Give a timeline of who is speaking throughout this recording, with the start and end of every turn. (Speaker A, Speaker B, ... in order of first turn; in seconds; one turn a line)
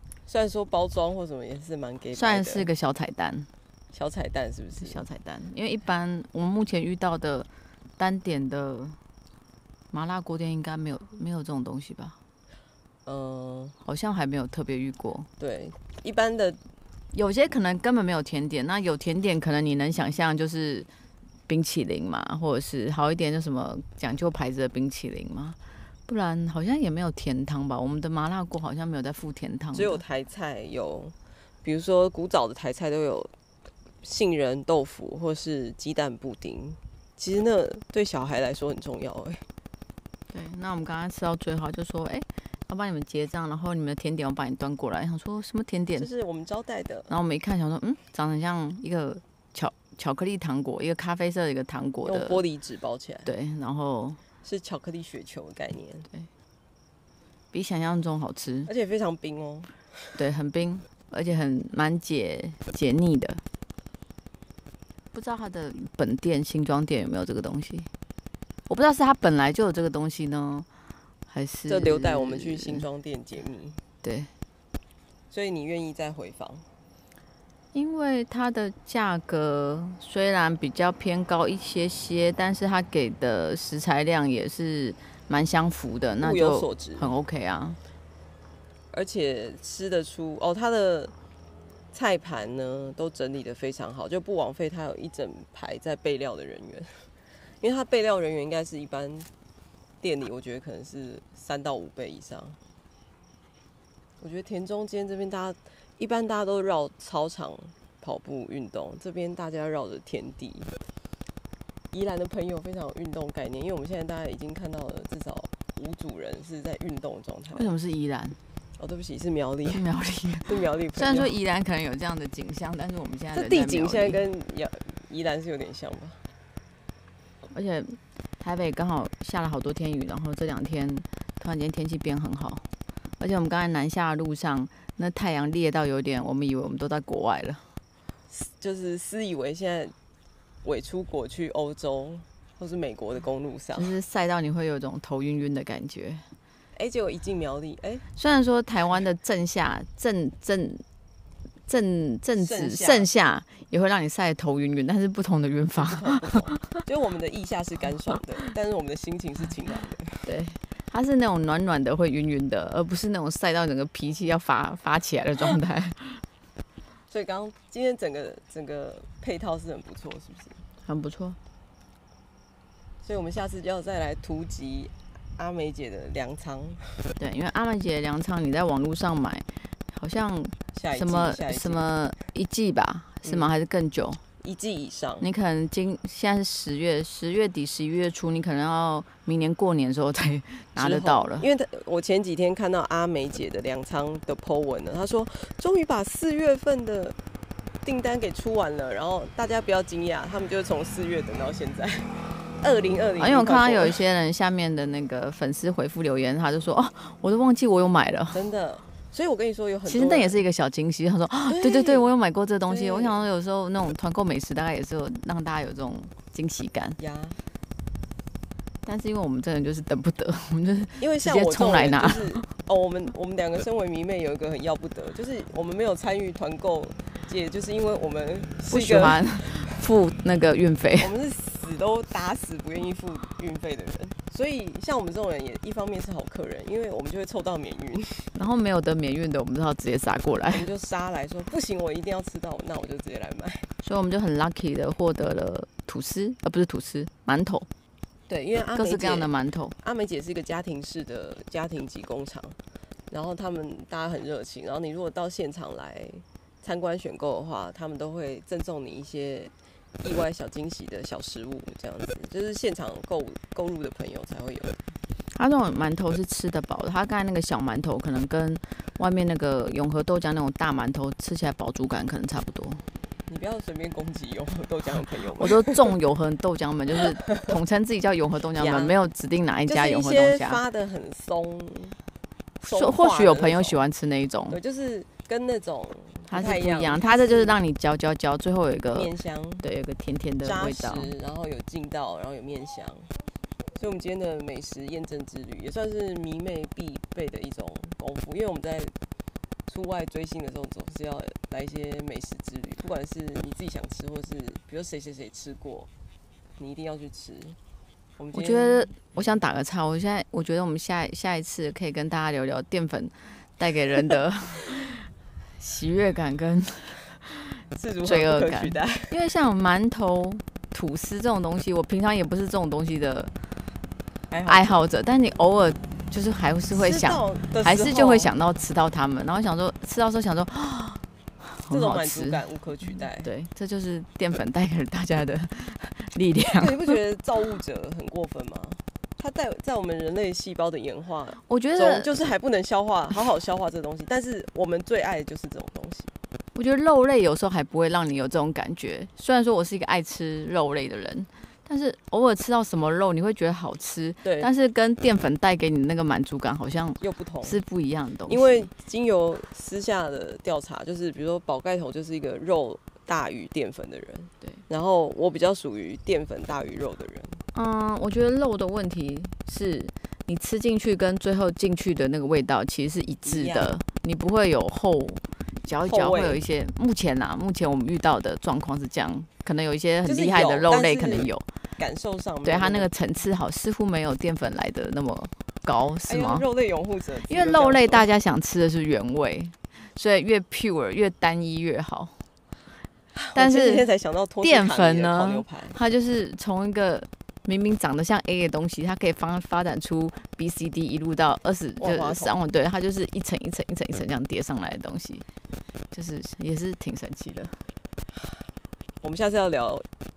Speaker A: 0.3-2.7
Speaker B: 2.1-3.5
Speaker A: 3.9-5.0
Speaker B: 4.8-7.5
Speaker B: 8.0-9.0
Speaker B: 9.9-12.2
Speaker A: 13.1-13.8
Speaker B: 13.8-15.3
Speaker A: 15.4-16.6
Speaker B: 17.1-20.9
Speaker B: 21.5-30.0
Speaker A: 29.7-33.3
Speaker A: 34.0-39.5
Speaker B: 40.3-46.1
Speaker A: 46.0-47.1
Speaker B: 47.1-52.4
Speaker A: 52.0-53.3
Speaker B: 53.2-54.2
Speaker A: 54.4-56.1
Speaker B: 57.5-58.7
Speaker A: 58.7-59.8
Speaker B: 60.2-63.4
Speaker B: 65.1-67.9
Speaker B: 68.7-70.7
Speaker B: 71.3-72.8
Speaker A: 71.7-73.8
Speaker B: 74.0-74.3
Speaker A: 75.3-76.7
Speaker B: 77.7-87.8
Speaker A: 86.2-87.1
Speaker A: 88.9-91.1
Speaker A: 91.9-97.1
Speaker A: 97.6-99.3
Speaker A: 100.0-102.6
Speaker A: 104.2-110.7
Speaker A: 111.9-117.7
Speaker B: 117.5-118.4
Speaker A: 118.8-119.8
Speaker B: 119.7-124.2
Speaker A: 120.5-121.3
Speaker A: 123.3-126.2
Speaker B: 127.5-132.7
Speaker B: 133.2-137.7
Speaker A: 138.3-139.9
Speaker A: 140.6-143.9
Speaker B: 143.8-146.2
Speaker A: 146.8-148.0
Speaker B: 148.2-150.8
Speaker B: 151.7-156.6
Speaker A: 152.4-153.1
Speaker A: 155.8-160.3
Speaker B: 160.3-166.2
Speaker A: 167.1-170.6
Speaker B: 170.8-171.4
Speaker A: 173.0-176.9
Speaker B: 177.2-184.2
Speaker A: 180.7-181.9
Speaker A: 183.2-183.5
Speaker A: 184.4-185.3
Speaker B: 185.2-191.5
Speaker A: 190.8-197.2
Speaker A: 197.8-204.0
Speaker B: 203.2-208.4
Speaker A: 208.3-210.4
Speaker B: 209.9-217.0
Speaker A: 211.5-212.1
Speaker A: 212.7-213.2
Speaker A: 217.0-217.4
Speaker B: 218.8-222.5
Speaker A: 221.0-229.8
Speaker B: 228.7-231.1
Speaker A: 231.0-238.3
Speaker B: 238.3-240.7
Speaker A: 240.5-243.7
Speaker B: 243.8-247.7
Speaker A: 248.3-252.6
Speaker B: 248.8-249.8
Speaker A: 253.1-264.8
Speaker B: 265.3-272.8
Speaker A: 273.3-275.9
Speaker B: 275.4-280.6
Speaker A: 278.6-279.0
Speaker A: 279.7-282.0
Speaker B: 282.6-284.6
Speaker A: 282.6-283.8
Speaker A: 284.5-287.6
Speaker B: 286.3-289.1
Speaker A: 288.9-289.7
Speaker B: 289.6-291.1
Speaker A: 290.4-293.1
Speaker A: 293.8-298.9
Speaker A: 299.7-305.9
Speaker A: 306.6-307.6
Speaker A: 308.2-308.9
Speaker B: 308.3-323.3
Speaker A: 317.8-319.1
Speaker A: 324.3-324.8
Speaker B: 324.5-337.0
Speaker A: 326.7-328.3
Speaker A: 331.7-333.3
Speaker A: 336.5-346.1
Speaker B: 341.4-342.3
Speaker B: 346.6-358.7
Speaker A: 354.2-354.5
Speaker A: 357.0-357.6
Speaker A: 358.3-367.4
Speaker B: 367.5-381.5
Speaker A: 373.2-373.7
Speaker A: 375.8-376.4
Speaker A: 380.0-382.9
Speaker B: 382.4-386.4
Speaker A: 386.1-388.1
Speaker B: 387.3-392.2
Speaker A: 393.1-395.8
Speaker B: 393.4-393.9
Speaker B: 394.4-405.2
Speaker A: 401.8-402.4
Speaker B: 405.9-407.6
Speaker A: 409.0-409.9